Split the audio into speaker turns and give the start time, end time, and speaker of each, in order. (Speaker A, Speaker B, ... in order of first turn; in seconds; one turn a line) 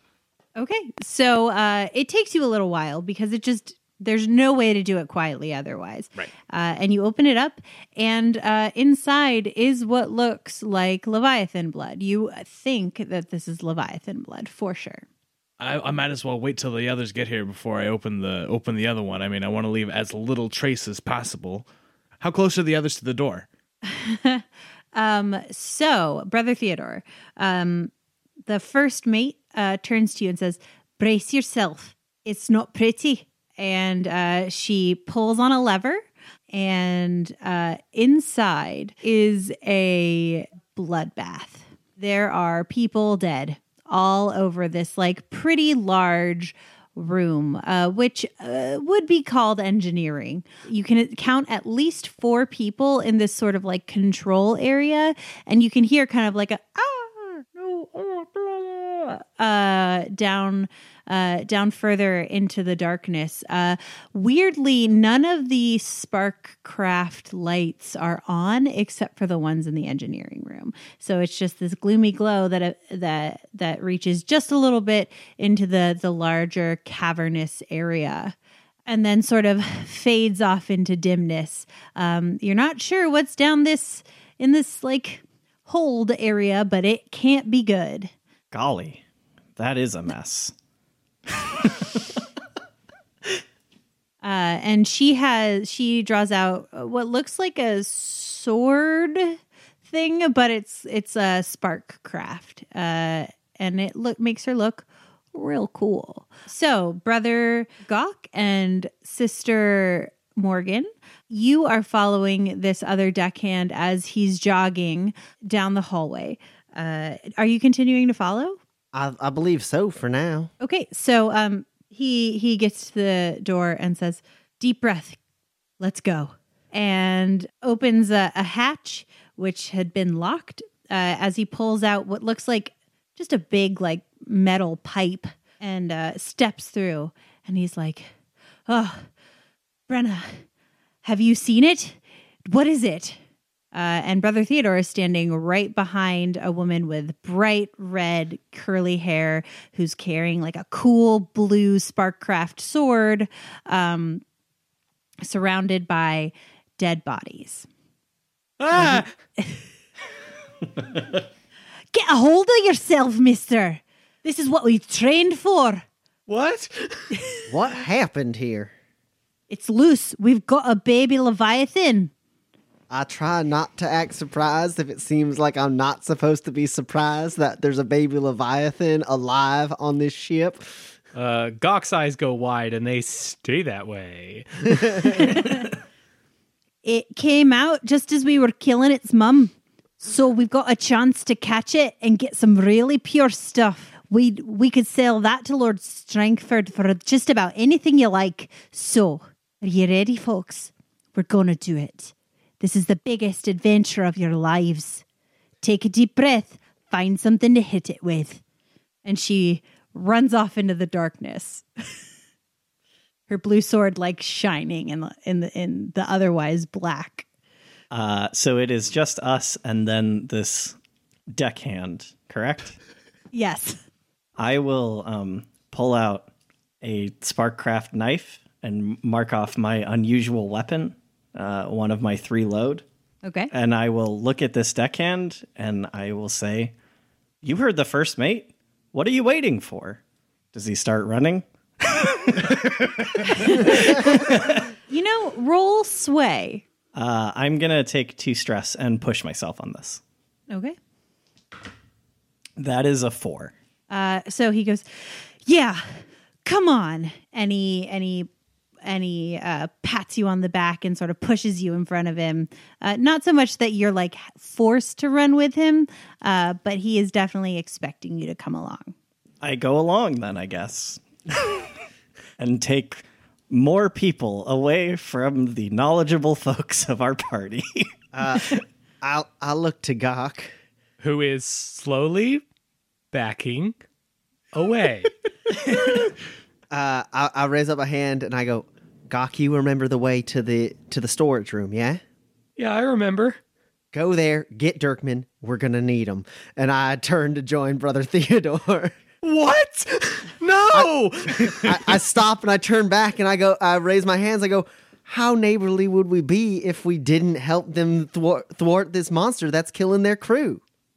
Speaker A: 0.6-15.1
Speaker B: 15.6-21.7
Speaker B: 22.2-23.5
Speaker A: 23.8-27.9
Speaker A: 28.5-78.3
Speaker A: 78.9-88.1
Speaker C: 88.5-89.0
Speaker C: 89.6-90.5
Speaker C: 91.3-92.1
Speaker A: 94.2-118.6
Speaker D: 118.9-120.5
Speaker A: 120.6-125.2
Speaker A: 125.8-138.1
Speaker A: 138.7-139.1
Speaker A: 139.9-140.4
Speaker A: 141.0-143.2
Speaker A: 143.7-154.2
Speaker A: 155.2-157.7
Speaker E: 158.6-159.1
Speaker A: 158.8-159.6
Speaker A: 161.9-165.8
Speaker E: 166.3-167.1
Speaker D: 167.5-168.7
Speaker A: 169.5-172.1
Speaker D: 172.9-180.6
Speaker E: 181.1-185.5
Speaker A: 185.1-185.6
Speaker A: 186.8-205.0
Speaker A: 205.6-208.4
Speaker A: 209.1-211.7
Speaker A: 213.3-217.3
Speaker C: 217.9-220.8
Speaker C: 221.3-222.8
Speaker A: 223.3-223.8
Speaker C: 224.4-226.3
Speaker C: 226.8-232.8
Speaker A: 233.2-233.5
Speaker C: 233.5-236.7
Speaker C: 237.4-240.0
Speaker C: 240.5-244.7
Speaker A: 243.4-244.1
Speaker A: 244.9-246.6
Speaker C: 246.9-250.0
Speaker A: 250.5-250.8
Speaker C: 252.6-253.5
Speaker A: 253.9-258.3
Speaker A: 258.8-268.9
Speaker C: 269.4-271.6
Speaker C: 272.4-278.5
Speaker D: 278.1-280.5
Speaker E: 281.0-282.4
Speaker E: 283.1-283.8
Speaker E: 284.5-285.1
Speaker D: 286.7-292.0
Speaker E: 292.6-293.4
Speaker D: 293.9-299.0
Speaker E: 299.2-301.9
Speaker D: 300.7-310.6